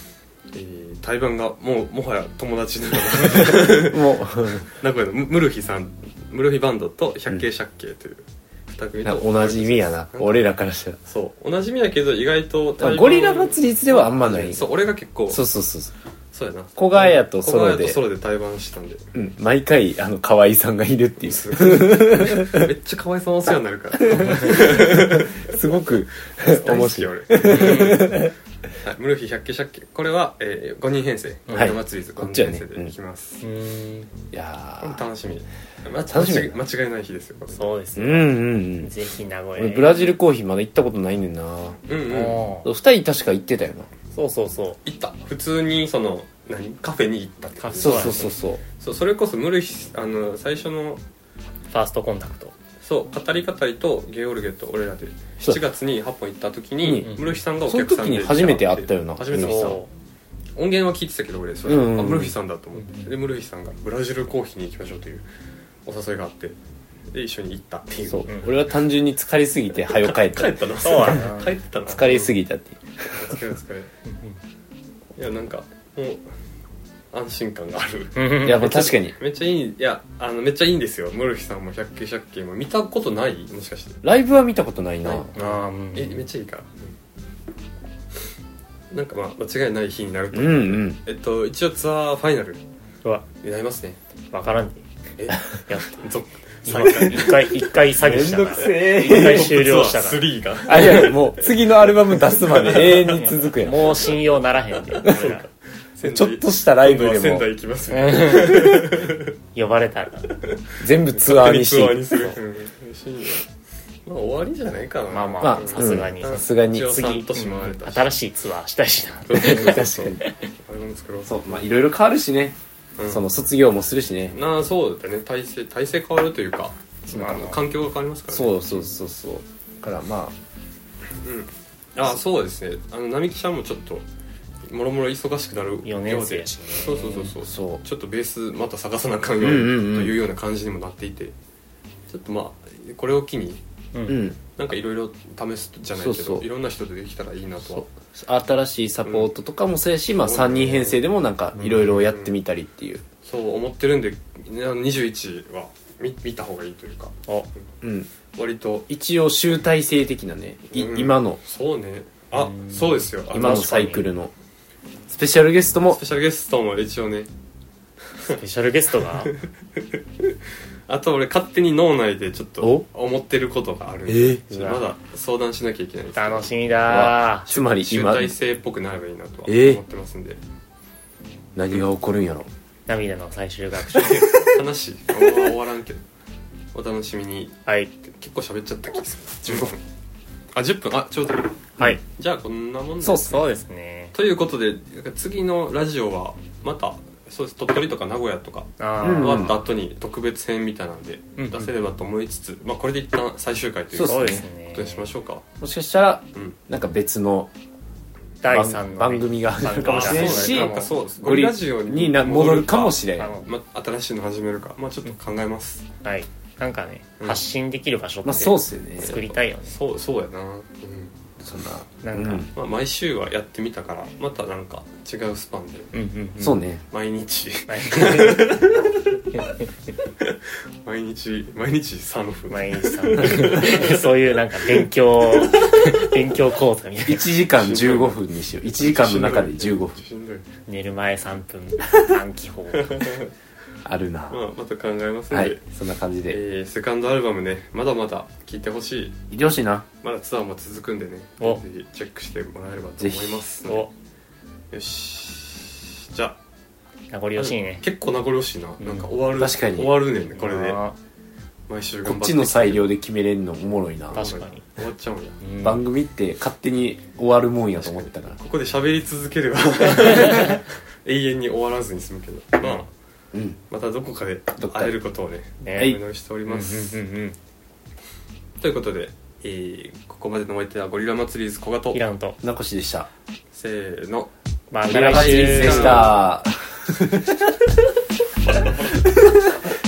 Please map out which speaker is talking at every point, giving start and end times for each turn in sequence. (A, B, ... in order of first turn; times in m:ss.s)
0:00.5-0:04.0 A
0:03.3-0:04.7 B
0:04.7-0:10.5 A
0:09.0-0:11.0 B
0:11.0-0:15.4 A
0:12.8-0:15.9 B
0:16.3-0:19.1 A
0:16.8-0:18.0 B
0:19.1-0:22.7 B
0:21.2-0:25.6 A
0:24.1-0:28.3 B
0:26.4-0:28.3 A
0:27.4-0:28.1 C
0:28.8-0:33.4 A
0:31.5-0:31.8 C
0:31.5-0:32.9 B
0:33.4-0:34.1 C
0:34.3-0:35.0 B
0:34.8-0:37.8 A
0:36.1-0:36.6 B
0:37.5-0:40.1 C
0:38.0-0:38.9 B
0:39.6-0:41.8 B
0:41.9-0:42.4 A
0:42.1-0:42.7 C
0:42.6-0:43.9 B
0:44.1-0:44.8 C
0:44.8-0:51.0 A
0:47.6-0:48.3 C
0:47.8-0:48.6 B
0:51.7-0:52.5 C
0:52.8-0:59.8 A
0:56.8-0:59.8 B
0:57.1-0:57.4 C
0:59.3-0:59.9 C
1:00.6-1:05.2 A
1:01.6-1:02.4 B
1:02.8-1:03.1 C
1:05.9-1:06.6 A
1:07.1-1:08.4 A
1:08.1-1:11.2 B
1:09.9-1:12.4 A
1:10.8-1:11.5 C
1:11.9-1:13.4 B
1:13.1-1:13.9 A
1:14.1-1:14.3 C
1:15.2-1:16.2 A
1:17.1-1:24.0 A
1:18.2-1:18.8 C
1:18.4-1:19.2 B
1:24.0-1:25.3 B
1:25.0-1:26.8 A
1:25.3-1:26.2 C
1:28.9-1:32.6 A
1:30.3-1:31.0 B
1:33.4-1:34.0 A
1:34.3-1:34.8 C
1:35.2-1:37.7 A
1:35.7-1:36.1 C
1:36.6-1:41.2 C
1:38.0-1:39.7 B
1:38.8-1:44.2 A
1:40.6-1:44.0 B
1:43.1-1:45.4 C
1:45.0-1:49.4 A
1:46.0-1:47.5 B
1:47.9-1:49.0 C
1:49.5-1:50.3 C
1:50.4-1:53.5 A
1:50.8-1:52.2 B
1:54.1-1:58.1 A
1:55.1-2:00.3 C
1:55.4-1:56.9 B
1:59.2-2:01.6 A
1:59.3-2:00.2 B
2:01.2-2:02.6 B
2:03.0-2:03.2 A
2:03.1-2:04.4 B
2:04.3-2:08.8 A
2:07.1-2:07.6 C
2:08.3-2:10.4 B
2:11.2-2:14.0 A
2:14.7-2:21.3 A
2:15.8-2:17.3 C
2:17.4-2:17.8 B
2:19.4-2:20.2 B
2:22.1-2:23.6 A
2:23.9-2:24.3 C
2:24.0-2:24.4 B
2:24.6-2:27.9 A
2:26.0-2:26.5 B
2:27.6-2:33.0 B
2:29.0-2:29.3 A
2:30.2-2:31.0 A
2:31.6-2:32.0 C
2:31.7-2:32.4 A
2:33.2-2:37.1 A
2:37.8-2:38.1 B
2:38.4-2:38.9 A
2:38.9-2:41.4 B
2:40.7-2:43.9 A
2:42.4-2:44.1 C
2:43.3-2:44.3 B
2:45.1-2:46.0 B
2:45.9-2:47.3 A
2:48.2-2:49.3 C
2:49.2-2:50.0 A
2:50.9-2:56.5 A
2:54.1-2:54.8 B
2:56.1-2:57.5 C
2:56.9-2:58.4 B
2:57.5-3:00.4 A
2:59.5-2:59.8 B
3:01.5-3:02.5 B
3:02.9-3:04.6 C
3:03.9-3:06.0 A
3:06.7-3:09.8 A
3:07.6-3:07.9 C
3:10.5-3:13.5 A
3:13.0-3:13.4 B
3:13.2-3:14.1 C
3:14.1-3:25.4 A
3:18.8-3:19.5 C
3:19.0-3:19.6 B
3:21.4-3:21.7 C
3:23.9-3:24.5 B
3:24.0-3:25.0 C
3:25.6-3:27.5 B
3:28.4-3:31.0 C
3:28.5-3:33.3 B
3:29.6-3:35.9 A
3:33.1-3:33.5 C
3:36.0-3:39.7 C
3:38.2-3:39.3 B
3:39.6-3:41.1 A
3:41.4-3:42.5 B
3:42.0-3:42.5 C
3:42.5-3:45.9 A
3:45.9-3:46.6 C
3:46.4-3:46.8 B
3:46.9-3:49.5 A
3:47.7-3:48.6 C
3:50.2-3:54.0 A
3:52.5-3:57.3 C
3:57.0-4:00.0 B
3:57.5-4:00.5 A
4:00.7-4:03.1 C
4:02.8-4:03.3 A
4:03.8-4:04.4 B
4:04.3-4:05.6 A
4:05.3-4:06.4 B
4:06.3-4:09.2 A
4:09.3-4:09.9 B
4:10.0-4:13.9 A
4:13.0-4:13.4 B
4:13.6-4:13.9 C
4:14.7-4:16.4 A
4:17.1-4:17.8 C
4:17.4-4:20.8 A
4:18.8-4:19.2 C
4:19.4-4:20.0 B
4:20.4-4:21.0 C
4:21.7-4:22.8 A
4:22.0-4:24.3 B
4:24.1-4:24.6 C
4:24.1-4:25.4 A
4:25.4-4:25.8 C
4:25.6-4:28.4 B
4:27.8-4:32.9 A
4:33.3-4:33.6 B
4:33.7-4:37.0 A
4:34.6-4:34.9 B
4:35.6-4:37.4 C
4:38.6-4:42.0 A
4:41.9-4:42.4 C
4:42.4-4:43.1 B
4:43.5-4:44.3 A
4:44.7-4:46.2 C
4:44.9-4:46.2 A
4:44.9-4:47.5 B
4:48.4-4:49.5 A